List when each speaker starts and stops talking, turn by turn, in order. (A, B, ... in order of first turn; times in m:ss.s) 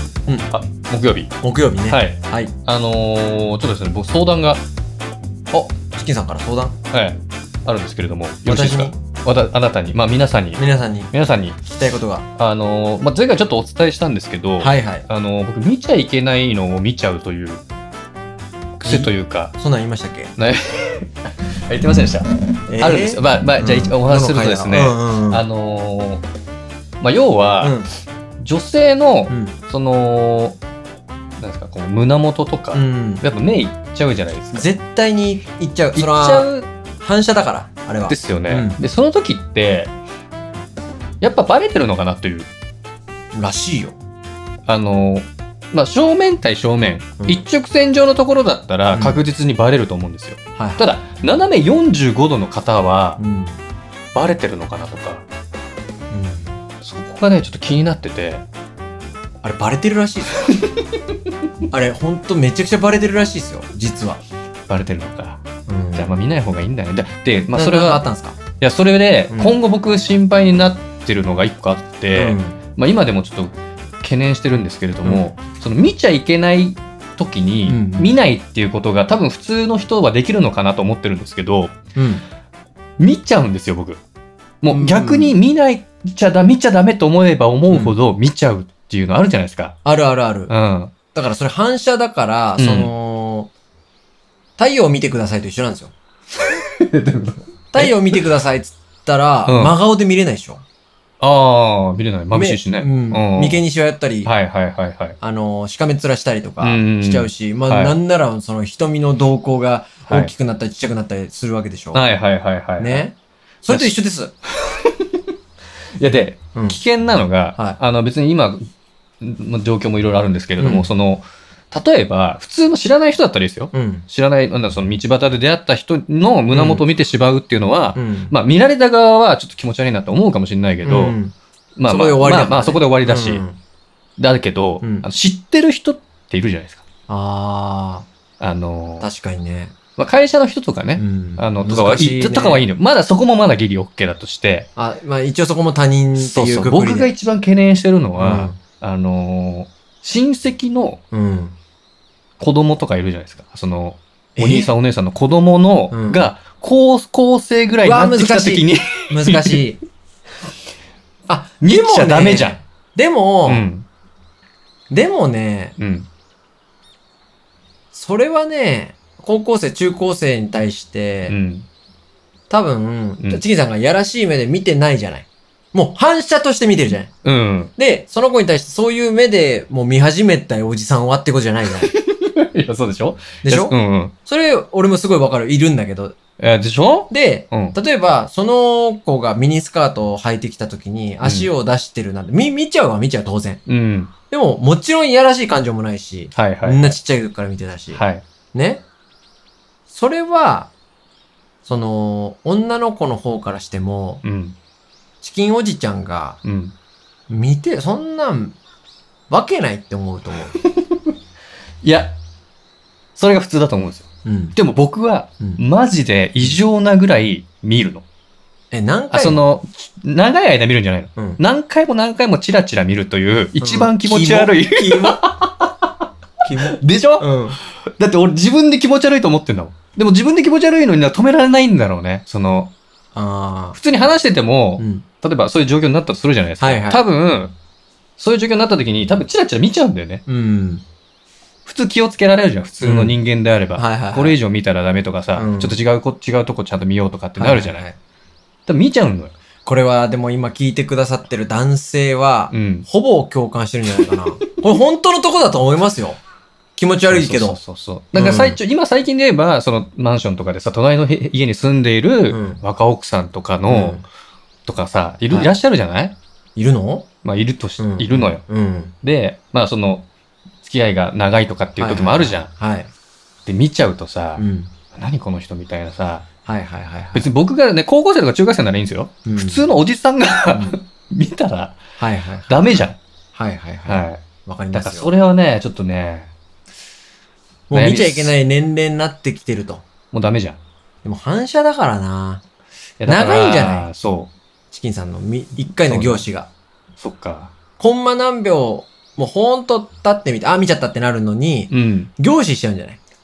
0:00.5-0:01.3 A
0:01.4-0:02.5 B
0:01.9-0:04.6 A
0:05.5-0:06.7 B
0:06.9-0:10.6 A
0:08.4-0:09.0 B
0:10.6-0:11.1 B
0:11.1-0:11.6 A
0:11.6-0:12.3 B
0:12.4-0:17.6 A
0:14.6-0:15.0 B
0:18.8-0:19.5 A
0:18.8-0:20.3 B
0:20.4-0:26.2 A
0:22.7-0:25.4 B
0:27.0-0:27.8 A
0:27.6-0:27.9 B
0:28.4-0:30.6 A
0:29.3-0:29.6 B
0:31.4-0:34.7 A
0:32.7-0:33.2 B
0:34.5-0:38.8 B
0:35.9-0:36.7 A
0:38.1-0:39.9 A
0:41.2-0:42.5 A
0:43.3-0:44.0 B
0:44.6-0:53.2 A
0:48.9-0:49.2 B
0:50.6-0:50.8 B
0:53.2-0:53.6 B
0:54.1-0:55.2 A
0:56.1-0:56.5 B
0:56.8-0:58.4 A
0:59.4-1:00.4 B
1:00.4-1:00.8 A
1:01.7-1:04.2 B
1:04.7-1:05.4 A
1:05.7-1:06.2 B
1:05.9-1:08.0 A
1:07.5-1:08.4 B
1:08.6-1:21.8 A
1:09.3-1:09.6 B
1:12.1-1:12.6 B
1:15.0-1:15.3 B
1:17.7-1:18.1 B
1:21.9-1:22.2 B
1:23.0-1:24.0 A
1:24.6-1:29.8 A
1:24.7-1:25.4 B
1:27.7-1:27.9 B
1:29.8-1:30.5 B
1:30.5-1:30.9 A
1:31.1-1:33.5 B
1:32.6-1:32.9 A
1:34.6-1:35.9 B
1:36.5-1:38.2 A
1:37.7-1:40.6 B
1:39.4-1:39.7 A
1:41.2-1:43.6 A
1:42.3-1:44.3 B
1:44.2-1:45.2 A
1:45.2-1:52.0 B
1:46.6-1:48.0 A
1:50.1-1:50.3 A
1:51.9-1:53.0 A
1:52.8-1:54.3 B
1:54.7-1:55.1 A
1:56.0-1:58.7 A
1:56.5-1:56.8 B
1:59.2-2:11.2 A
2:00.6-2:00.9 B
2:03.7-2:04.1 B
2:06.5-2:06.8 B
2:07.9-2:08.3 B
2:10.8-2:11.3 B
2:11.8-2:13.4 A
2:11.9-2:13.6 B
2:14.2-2:16.8 A
2:14.8-2:15.1 B
2:17.1-2:18.1 B
2:18.4-2:19.1 A
2:19.0-2:19.7 B
2:20.0-2:24.7 A
2:21.0-2:22.7 B
2:24.8-2:27.1 B
2:26.2-2:31.0 A
2:28.2-2:28.6 B
2:31.1-2:31.6 B
2:32.4-2:39.6 A
2:34.4-2:34.7 B
2:35.9-2:36.3 B
2:37.8-2:39.8 B
2:41.3-2:43.7 B
2:41.6-2:42.6 A
2:43.4-2:43.8 A
2:44.9-2:45.8 B
2:45.8-2:46.1 A
2:47.9-2:51.3 B
2:51.3-2:51.7 A
2:52.5-2:57.1 B
2:57.2-2:57.7 A
2:57.8-3:01.9 B
3:01.7-3:04.1 A
3:03.4-3:03.7 B
3:04.2-3:06.2 B
3:06.4-3:07.8 A
3:07.1-3:13.6 B
3:11.2-3:11.5 A
3:13.6-3:14.1 A
3:14.3-3:18.0 B
3:16.3-3:17.0 A
3:17.9-3:18.2 A
3:18.5-3:18.8 B
3:19.9-3:20.7 B
3:21.6-3:24.2 B
3:24.2-3:24.6 A
3:25.2-3:26.4 B
3:26.4-3:26.7 A
3:27.3-3:28.6 B
3:29.3-3:30.6 B
3:30.8-3:31.1 A
3:31.8-3:32.2 A
3:33.2-3:38.0 A
3:34.2-3:34.5 B
3:38.7-3:39.4 B
3:39.1-3:45.9 A
3:43.6-3:45.2 B
3:46.4-3:47.6 B
3:46.7-3:47.4 A
3:48.0-3:52.7 A
3:53.1-3:53.8 B
3:53.7-3:57.5 A
3:54.8-3:55.0 B
3:56.6-3:57.0 B
3:58.2-4:00.2 A
4:00.3-4:00.8 B
4:01.6-4:07.8 A
4:02.8-4:03.2 B
4:03.8-4:04.4 B
4:05.4-4:05.8 B
4:07.4-4:08.0 B
4:08.7-4:09.3 A
4:09.6-4:16.2 B
4:12.5-4:12.9 A
4:16.8-4:17.6 B
4:17.1-4:24.0 A
4:18.1-4:18.6 B
4:22.3-4:22.6 B
4:23.7-4:24.0 B
4:24.6-4:26.2 A
4:26.6-4:27.1 B
4:27.2-4:28.4 A
4:27.8-4:28.9 B
4:29.0-4:30.1 A
4:30.6-4:32.5 A
4:31.8-4:32.9 B
4:33.4-4:36.2 A
4:34.4-4:34.7 B
4:36.4-4:37.3 B
4:37.1-4:41.8 A
4:39.2-4:39.7 B
4:40.5-4:40.8 B
4:42.0-4:45.2 B
4:42.5-4:43.0 A
4:43.8-4:46.3 A
4:47.7-4:49.8 B
4:47.7-4:48.3 A
4:50.1-4:50.6 A
4:51.0-4:52.4 B
4:53.0-4:54.3 A
4:53.0-4:53.9 B
4:54.7-4:56.5 B
4:55.6-4:56.2 A
4:57.0-4:57.5 A
4:57.8-5:03.0 B
5:01.7-5:02.1 A